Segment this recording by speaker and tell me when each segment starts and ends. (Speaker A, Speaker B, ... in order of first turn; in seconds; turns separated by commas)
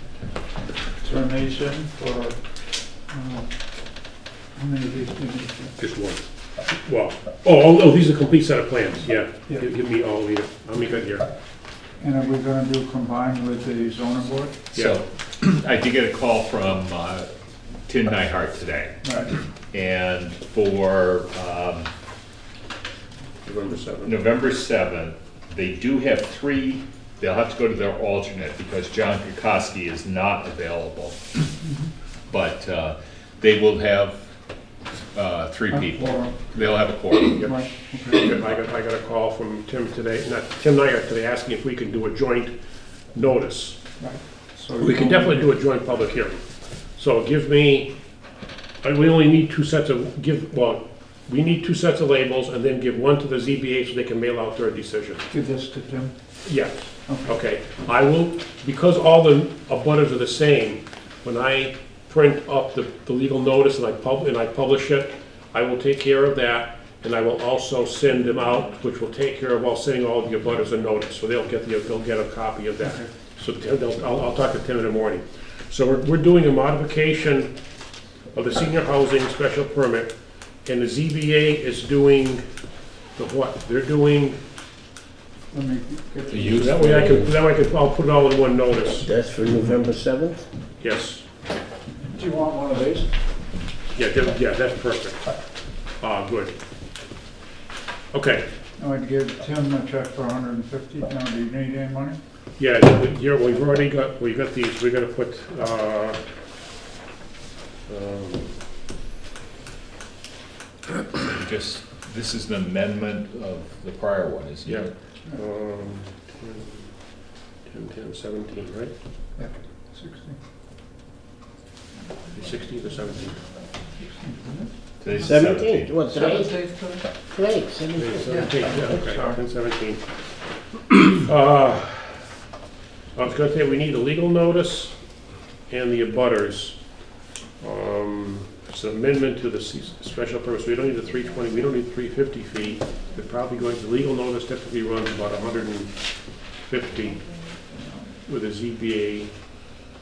Speaker A: 1.0-2.4, Speaker A: 3.1-3.5, Speaker A: 4.5-5.7, Speaker B: 5.8-11.3, Speaker A: 12.0-14.6, Speaker C: 14.7-17.3, Speaker C: 17.9-19.0, Speaker A: 19.0-19.3, Speaker C: 19.7-21.9, Speaker B: 23.4-24.3, Speaker C: 24.0-31.4, Speaker C: 32.3-34.2, Speaker C: 35.1-37.5, Speaker A: 35.7-36.5, Speaker B: 37.2-37.5, Speaker A: 37.3-38.3, Speaker B: 38.1-42.5, Speaker B: 43.1-43.8, Speaker A: 44.0-45.5, Speaker B: 44.8-46.4, Speaker B: 47.0-47.9, Speaker B: 48.8-55.2, Speaker A: 55.3-56.1, Speaker B: 56.4-77.5, Speaker A: 57.1-57.3, Speaker A: 72.8-73.1, Speaker B: 78.3-80.1, Speaker B: 80.6-82.4, Speaker B: 83.2-84.4, Speaker A: 85.5-86.7, Speaker C: 86.3-87.3, Speaker B: 86.5-89.1, Speaker D: 89.0-90.5, Speaker B: 90.8-91.2, Speaker A: 92.1-93.1, Speaker B: 94.0-95.3, Speaker B: 96.0-96.6, Speaker B: 98.1-98.5, Speaker A: 98.8-102.2, Speaker B: 102.6-106.2, Speaker B: 107.9-108.5, Speaker C: 111.2-114.9, Speaker B: 114.6-116.9, Speaker B: 117.7-118.9, Speaker A: 119.4-120.4, Speaker B: 122.3-123.4, Speaker A: 124.2-124.7, Speaker C: 125.0-126.0, Speaker D: 125.2-126.6, Speaker D: 127.3-129.0, Speaker B: 128.0-130.0, Speaker A: 129.0-129.4, Speaker B: 130.9-132.3, Speaker B: 133.1-134.9, Speaker B: 135.7-136.8, Speaker B: 137.6-145.9, Speaker B: 146.6-147.2, Speaker B: 148.2-149.3